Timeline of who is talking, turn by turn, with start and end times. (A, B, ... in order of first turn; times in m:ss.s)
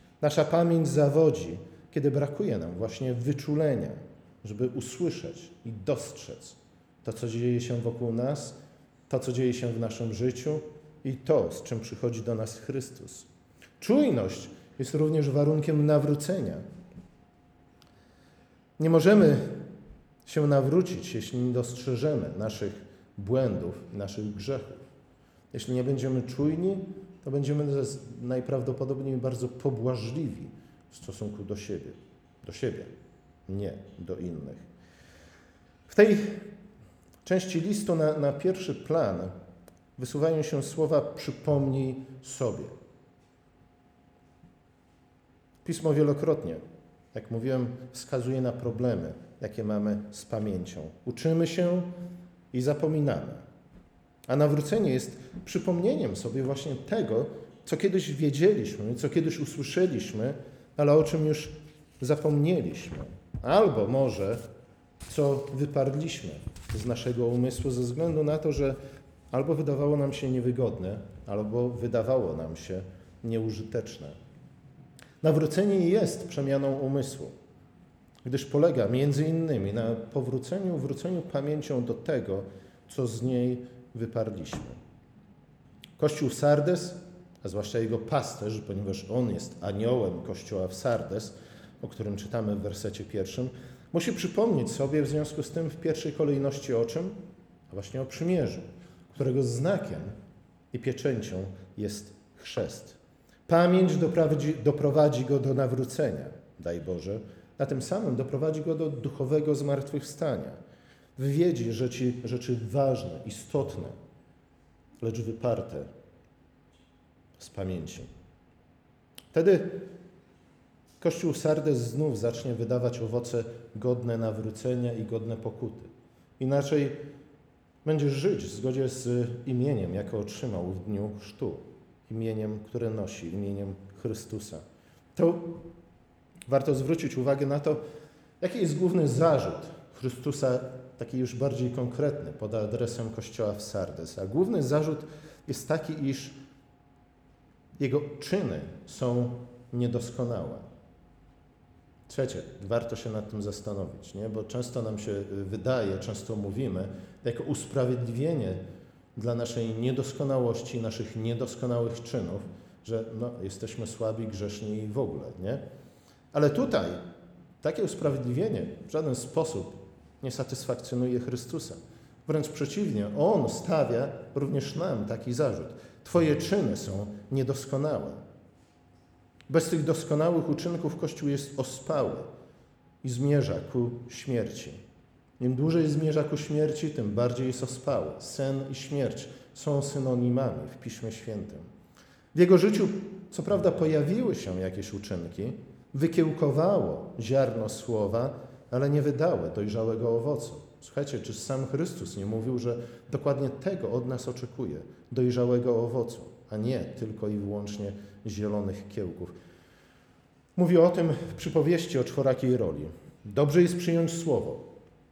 0:00.2-0:08.6 A
0:09.1-0:13.3 A
0:13.8-0:16.6 A
0:18.8-0:19.6 A
0:20.2-0:24.8 A
0:25.5-0:32.9 A
0:33.5-0:34.6 A
0:35.9-0:36.5 A
0:37.2-0:39.3 A
0:40.0-0:42.7 A
0:45.6-0:46.6 A
0:47.1-0:51.9 A
0:52.5-0:53.4 A
0:54.3-1:04.4 A
1:05.1-1:08.8 A
1:09.3-1:14.1 A
1:15.2-1:17.3 A
1:18.2-1:24.8 A
1:26.0-1:37.2 A
1:37.7-1:40.1 A
1:40.7-1:50.6 A
1:51.2-1:53.9 A
1:55.0-1:55.9 A
1:57.4-1:58.1 A
1:59.3-1:59.9 A
2:01.0-2:07.1 A
2:07.8-2:14.6 A
2:15.2-2:15.7 A
2:16.5-2:17.8 A
2:18.4-2:26.3 A
2:27.8-2:30.6 A
2:32.1-2:38.6 A
2:39.1-2:45.6 A
2:46.3-2:47.0 A
2:47.6-2:58.2 A
2:59.5-3:02.3 A
3:03.0-3:04.8 A
3:05.4-3:11.6 A
3:12.3-3:29.3 A
3:30.6-3:34.7 A